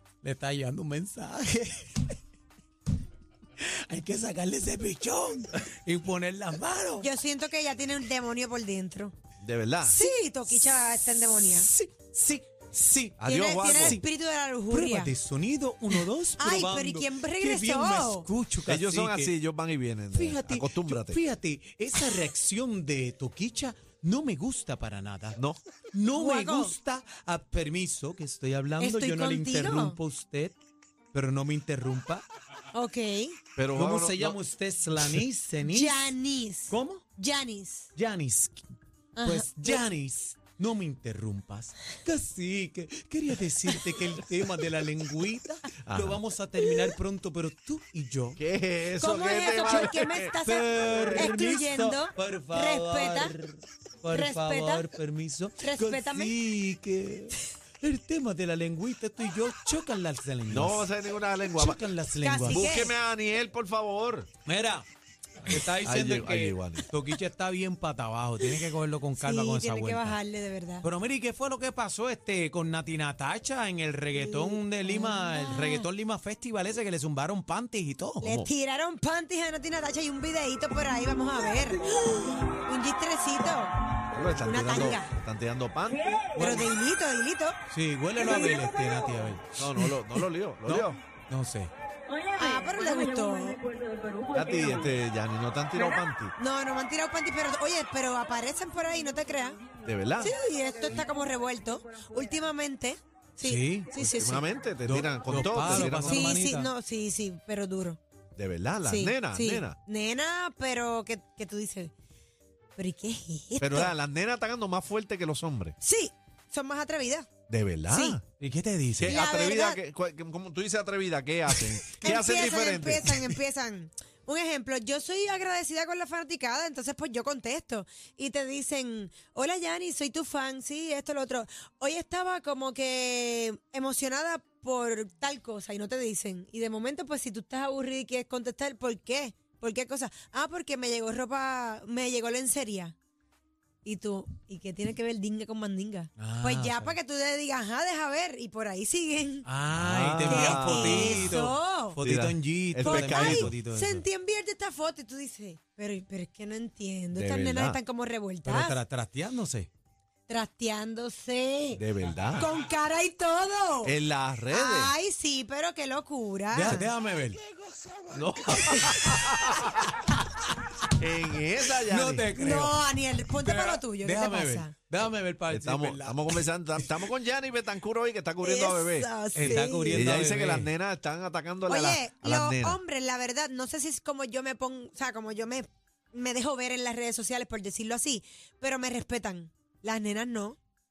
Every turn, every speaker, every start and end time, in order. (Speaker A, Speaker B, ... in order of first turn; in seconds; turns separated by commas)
Speaker A: 0.2-2.2, Speaker A: 3.6-7.1, Speaker B: 7.0-9.1, Speaker C: 9.4-9.9, Speaker B: 9.8-11.7, Speaker A: 11.4-14.0, Speaker C: 13.2-14.0, Speaker B: 13.2-15.1, Speaker A: 14.7-19.3, Speaker B: 15.9-18.3, Speaker C: 18.6-21.2, Speaker A: 20.1-25.4, Speaker A: 25.9-30.6, Speaker B: 26.1-26.7, Speaker B: 28.8-30.0, Speaker A: 31.1-32.2, Speaker B: 32.7-33.4, Speaker C: 33.5-34.4, Speaker A: 33.7-36.1, Speaker C: 35.0-35.2, Speaker B: 35.6-37.9, Speaker A: 36.7-37.0, Speaker A: 37.9-38.6, Speaker B: 39.1-39.8, Speaker A: 39.2-48.4, Speaker C: 45.8-46.2, Speaker C: 48.4-51.3, Speaker B: 49.0-53.3, Speaker A: 50.4-60.9, Speaker B: 54.1-54.9, Speaker B: 55.6-56.3, Speaker C: 60.5-61.8, Speaker A: 61.6-62.8, Speaker B: 62.2-63.0, Speaker C: 62.4-64.3, Speaker A: 64.4-64.9, Speaker A: 65.4-70.2, Speaker C: 65.6-66.8, Speaker B: 69.2-70.9, Speaker A: 70.8-78.3, Speaker B: 74.2-75.9, Speaker B: 78.2-83.7, Speaker C: 78.2-78.5, Speaker C: 84.1-86.2, Speaker B: 84.2-85.1, Speaker B: 86.3-87.6, Speaker A: 86.3-86.7, Speaker A: 87.7-91.7, Speaker C: 89.6-91.0, Speaker B: 92.3-93.7, Speaker C: 94.3-96.3, Speaker B: 96.4-99.6, Speaker C: 99.8-100.3, Speaker B: 100.2-104.4, Speaker A: 103.4-103.9, Speaker C: 104.0-106.3, Speaker A: 104.8-106.7, Speaker B: 105.5-108.0, Speaker C: 108.3-109.8, Speaker B: 108.8-111.9, Speaker B: 112.8-113.9, Speaker C: 113.6-115.8, Speaker B: 115.8-117.3, Speaker C: 117.5-118.2, Speaker B: 117.9-118.2, Speaker A: 118.4-119.2, Speaker C: 119.0-123.3, Speaker B: 119.0-119.8, Speaker B: 121.9-142.9, Speaker B: 143.8-149.5, Speaker A: 146.2-146.9, Speaker A: 149.4-154.0, Speaker C: 149.7-151.4, Speaker B: 150.2-152.0, Speaker C: 152.0-153.5, Speaker B: 152.8-158.8, Speaker C: 157.1-157.8, Speaker A: 158.4-159.7, Speaker B: 160.3-161.8, Speaker C: 161.7-162.5, Speaker B: 162.3-163.9, Speaker C: 163.8-164.9, Speaker B: 164.5-166.9, Speaker A: 166.5-169.3, Speaker C: 168.1-170.0, Speaker B: 168.7-169.3, Speaker A: 170.0-170.4, Speaker C: 170.9-172.3, Speaker A: 171.7-177.0, Speaker B: 172.3-174.7, Speaker C: 175.5-182.8, Speaker B: 178.4-180.1, Speaker A: 179.3-180.7, Speaker B: 181.7-190.6